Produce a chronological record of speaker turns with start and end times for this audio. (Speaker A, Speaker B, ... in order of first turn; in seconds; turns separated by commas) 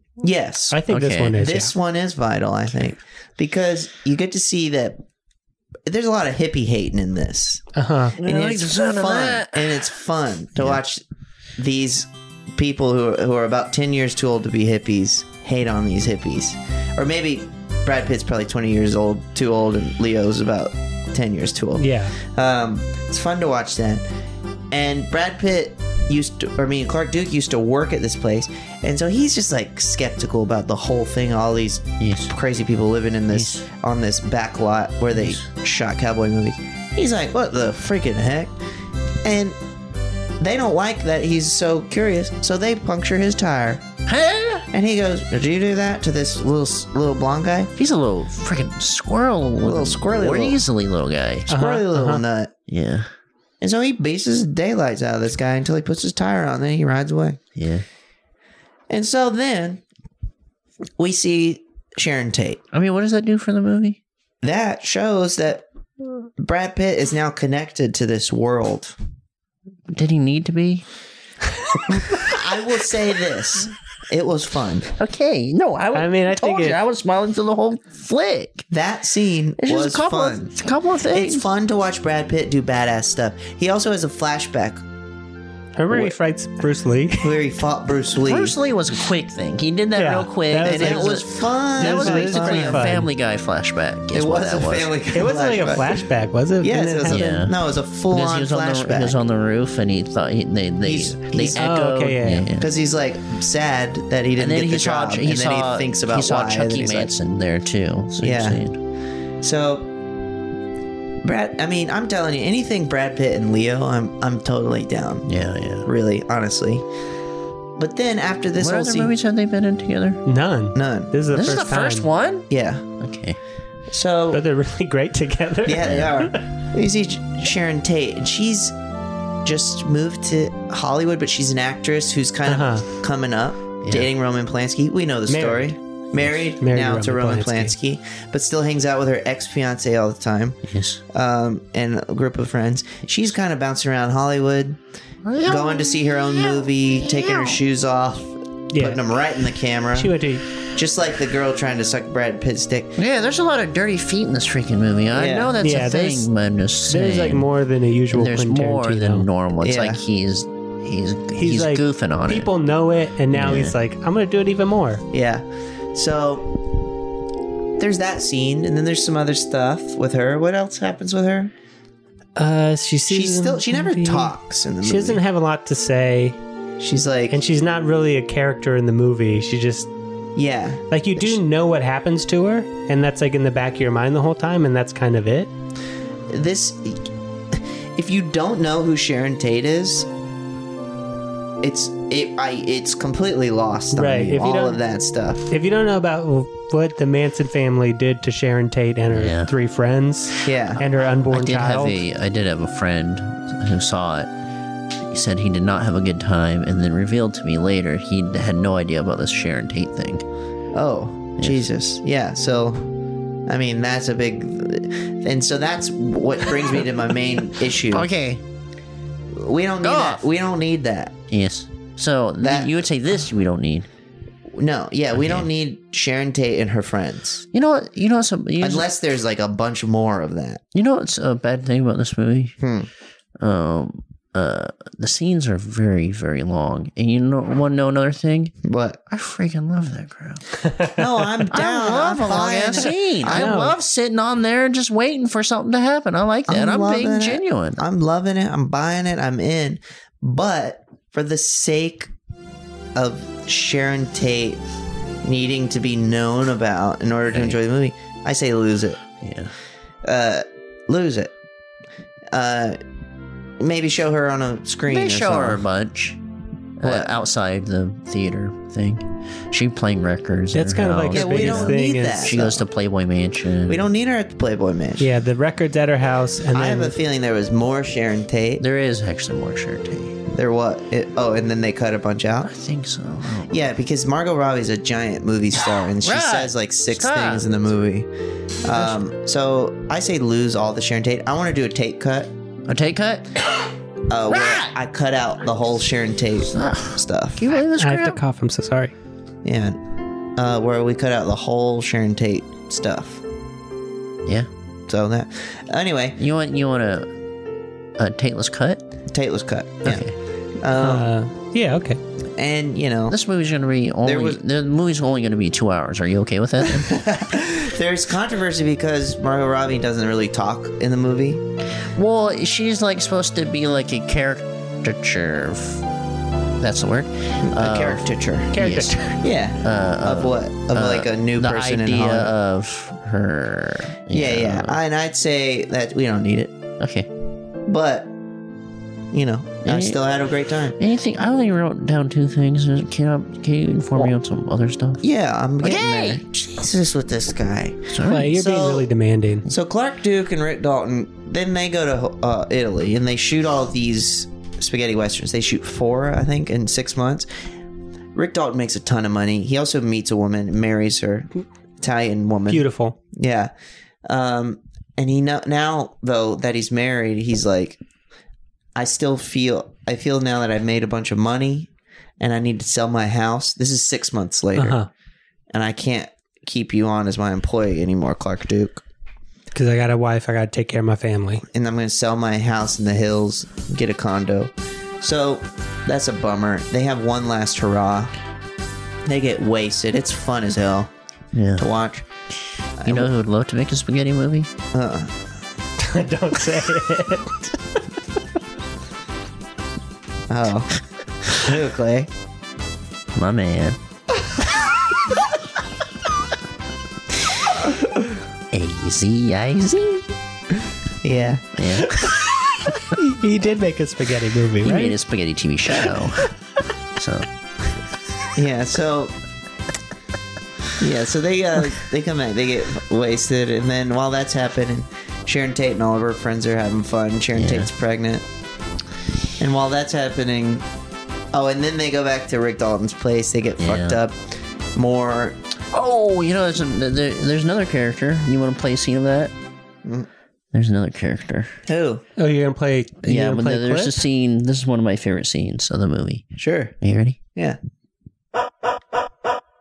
Speaker A: 0.2-0.8, Speaker B: 0.7-1.7, Speaker C: 0.9-1.4, Speaker A: 1.3-5.0, Speaker A: 5.8-11.0, Speaker B: 7.8-8.2, Speaker C: 8.2-9.7, Speaker A: 11.6-24.0, Speaker B: 21.8-22.2, Speaker A: 24.7-38.5, Speaker C: 32.0-32.3, Speaker C: 33.3-33.6, Speaker C: 35.1-35.4, Speaker A: 39.2-39.6, Speaker A: 40.4-43.8, Speaker C: 44.1-44.6, Speaker A: 44.7-47.7, Speaker C: 47.8-51.5, Speaker A: 49.6-50.6, Speaker A: 51.5-52.5, Speaker B: 51.5-52.2, Speaker C: 52.7-53.1, Speaker A: 53.6-57.4, Speaker C: 57.5-57.8, Speaker A: 58.9-59.8, Speaker A: 61.0-62.6, Speaker C: 62.7-64.0, Speaker A: 64.4-65.6, Speaker A: 66.4-69.0, Speaker C: 69.9-70.8, Speaker C: 72.0-72.3, Speaker A: 72.1-74.9, Speaker C: 75.0-78.7, Speaker B: 75.9-76.8, Speaker A: 78.7-80.5, Speaker C: 79.6-81.5, Speaker A: 81.1-84.8, Speaker B: 85.8-87.4, Speaker A: 87.2-88.5, Speaker C: 88.2-94.9, Speaker B: 90.0-91.3, Speaker A: 90.6-93.0, Speaker B: 91.8-93.1, Speaker A: 94.1-96.0, Speaker B: 95.1-97.3, Speaker A: 96.6-99.2, Speaker C: 97.1-97.5, Speaker C: 98.1-102.7, Speaker A: 100.8-101.7, Speaker B: 101.5-102.5, Speaker A: 102.6-107.1, Speaker C: 104.4-108.8, Speaker A: 108.2-108.6, Speaker A: 109.4-109.9, Speaker A: 111.2-115.3, Speaker C: 115.2-115.9, Speaker A: 115.8-116.8, Speaker A: 117.8-119.1, Speaker C: 118.6-120.2, Speaker B: 120.2-122.1, Speaker A: 120.7-121.1, Speaker C: 121.3-122.5, Speaker A: 122.5-122.8, Speaker C: 123.0-123.4, Speaker A: 123.9-124.4, Speaker B: 124.3-126.4, Speaker A: 125.6-128.8, Speaker A: 129.4-140.6, Speaker B: 132.4-132.8, Speaker C: 133.8-134.1, Speaker B: 135.3-135.8, Speaker B: 136.6-137.7, Speaker C: 140.6-141.0, Speaker A: 141.1-144.8, Speaker C: 145.2-147.6, Speaker A: 145.4-152.9, Speaker B: 148.7-149.0, Speaker B: 149.9-150.4, Speaker C: 153.0-157.4, Speaker A: 155.1-155.5, Speaker B: 155.6-156.3, Speaker B: 156.9-159.3, Speaker C: 158.1-162.5, Speaker A: 159.6-160.0, Speaker B: 161.4-165.0, Speaker C: 163.3-163.7, Speaker A: 165.1-166.5, Speaker A: 167.8-171.5, Speaker B: 172.3-176.4, Speaker A: 173.1-175.2, Speaker A: 176.8-177.4, Speaker B: 177.3-179.9, Speaker A: 180.3-181.4, Speaker B: 180.9-185.5, Speaker A: 186.3-190.1, Speaker A: 191.6-195.5, Speaker B: 193.9-194.8, Speaker B: 195.5-202.0, Speaker C: 199.1-199.5, Speaker A: 200.4-200.8, Speaker C: 201.3-204.3, Speaker C: 205.1-210.2, Speaker A: 210.7-212.9, Speaker C: 211.4-211.6, Speaker A: 213.5-218.1, Speaker C: 217.9-218.4, Speaker A: 219.3-221.1, Speaker C: 219.8-220.2, Speaker C: 221.3-223.9, Speaker A: 222.4-222.8, Speaker A: 224.5-227.4, Speaker C: 225.1-225.5, Speaker C: 227.5-228.9, Speaker A: 228.6-230.6, Speaker C: 230.7-232.5, Speaker A: 232.6-232.9, Speaker C: 233.4-238.5, Speaker A: 238.6-239.0, Speaker C: 239.1-240.5, Speaker A: 240.9-243.6, Speaker C: 241.5-247.8, Speaker B: 243.3-243.7, Speaker A: 246.5-252.1, Speaker A: 252.9-254.6, Speaker A: 255.2-259.0, Speaker C: 257.3-257.6, Speaker C: 259.2-259.5, Speaker A: 260.0-261.3, Speaker A: 262.3-262.8, Speaker A: 263.6-265.6, Speaker C: 264.9-266.2, Speaker C: 266.8-273.8, Speaker A: 266.8-267.1, Speaker B: 270.5-272.3, Speaker A: 271.1-272.6, Speaker A: 273.7-275.1, Speaker B: 275.0-276.9, Speaker A: 276.5-278.6, Speaker C: 278.6-280.2, Speaker A: 280.3-282.5, Speaker C: 282.5-283.5, Speaker A: 283.5-288.1, Speaker C: 286.0-287.5, Speaker A: 288.6-292.3, Speaker C: 292.7-293.3, Speaker A: 294.1-297.4, Speaker C: 294.3-294.8, Speaker C: 296.5-298.2, Speaker B: 297.8-298.9, Speaker A: 299.4-299.8, Speaker A: 300.4-303.2, Speaker A: 304.9-306.2, Speaker C: 306.2-307.1, Speaker C: 308.0-308.8, Speaker A: 309.1-310.1, Speaker C: 309.8-310.1, Speaker A: 310.6-311.1, Speaker B: 310.8-312.0, Speaker A: 312.4-313.2, Speaker C: 313.1-317.0, Speaker A: 314.0-314.4, Speaker A: 316.6-321.4, Speaker C: 321.8-325.8, Speaker C: 326.6-334.8, Speaker A: 327.4-332.3, Speaker B: 328.5-329.1, Speaker A: 334.1-336.5, Speaker C: 336.8-337.1, Speaker A: 337.6-338.1, Speaker A: 339.1-340.8, Speaker C: 339.6-340.0, Speaker C: 340.8-345.0, Speaker A: 345.0-348.9, Speaker C: 345.6-346.2, Speaker C: 347.9-348.3, Speaker B: 348.1-349.4, Speaker A: 349.5-357.3, Speaker A: 358.1-361.3, Speaker A: 361.8-363.5, Speaker B: 362.5-363.0, Speaker A: 364.1-367.8, Speaker A: 368.7-371.7, Speaker A: 372.2-374.8, Speaker B: 374.6-374.9, Speaker A: 375.5-378.8, Speaker B: 379.5-381.4, Speaker A: 381.5-388.1, Speaker A: 389.0-390.9, Speaker C: 391.3-391.6, Speaker A: 391.6-392.1, Speaker A: 392.8-393.1, Speaker C: 392.8-394.5, Speaker A: 394.7-395.1, Speaker B: 395.8-397.4, Speaker A: 400.3-400.7, Speaker A: 401.3-402.1, Speaker C: 403.1-403.8, Speaker C: 408.5-410.1, Speaker A: 411.0-411.4, Speaker C: 411.5-412.0, Speaker B: 411.9-414.9, Speaker C: 414.6-416.3, Speaker C: 416.9-417.3, Speaker A: 418.3-419.1, Speaker A: 420.8-428.2, Speaker C: 427.3-427.7, Speaker A: 429.4-430.6, Speaker A: 431.3-435.4, Speaker C: 433.6-434.0, Speaker C: 435.7-439.3, Speaker C: 440.5-441.5, Speaker A: 441.7-442.0, Speaker B: 442.2-444.0, Speaker C: 443.1-446.2, Speaker A: 446.4-446.7, Speaker C: 446.8-447.2